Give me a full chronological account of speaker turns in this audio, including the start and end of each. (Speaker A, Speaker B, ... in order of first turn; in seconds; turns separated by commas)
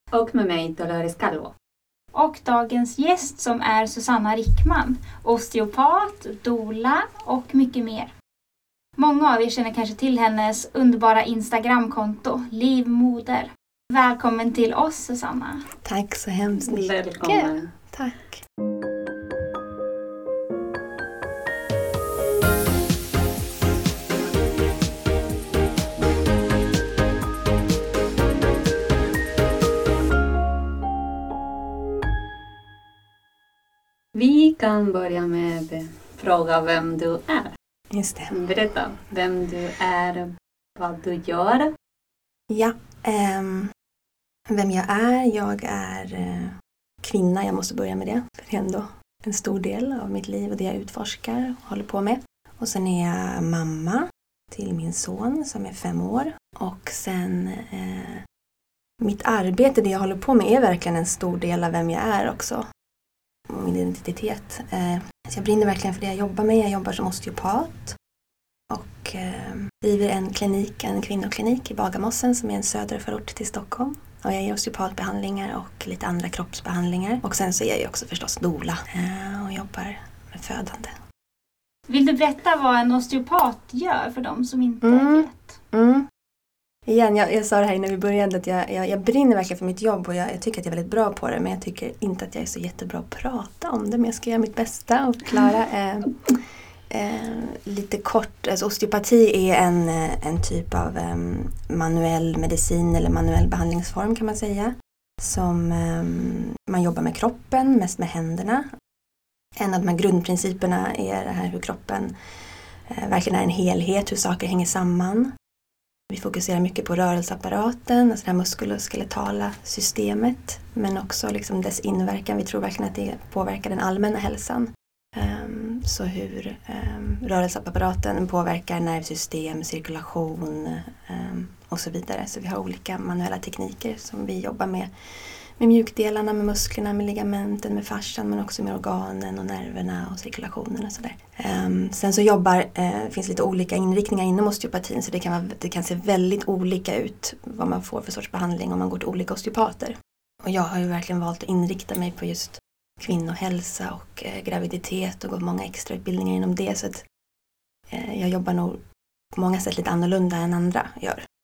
Speaker A: 0.1-1.5, Speaker B: 2.1-8.1, Speaker B: 9.0-15.7, Speaker C: 15.8-18.4, Speaker A: 16.6-17.7, Speaker A: 34.1-37.5, Speaker C: 37.9-38.4, Speaker A: 38.3-41.7, Speaker C: 42.5-43.7, Speaker C: 44.5-58.2, Speaker C: 59.0-62.7, Speaker C: 63.5-68.0, Speaker C: 68.7-81.0, Speaker B: 81.9-85.6, Speaker C: 84.8-86.1, Speaker C: 86.9-108.7, Speaker C: 109.6-112.1, Speaker C: 112.9-115.3, Speaker C: 116.1-157.0, Speaker C: 157.9-158.8, Speaker C: 159.3-161.2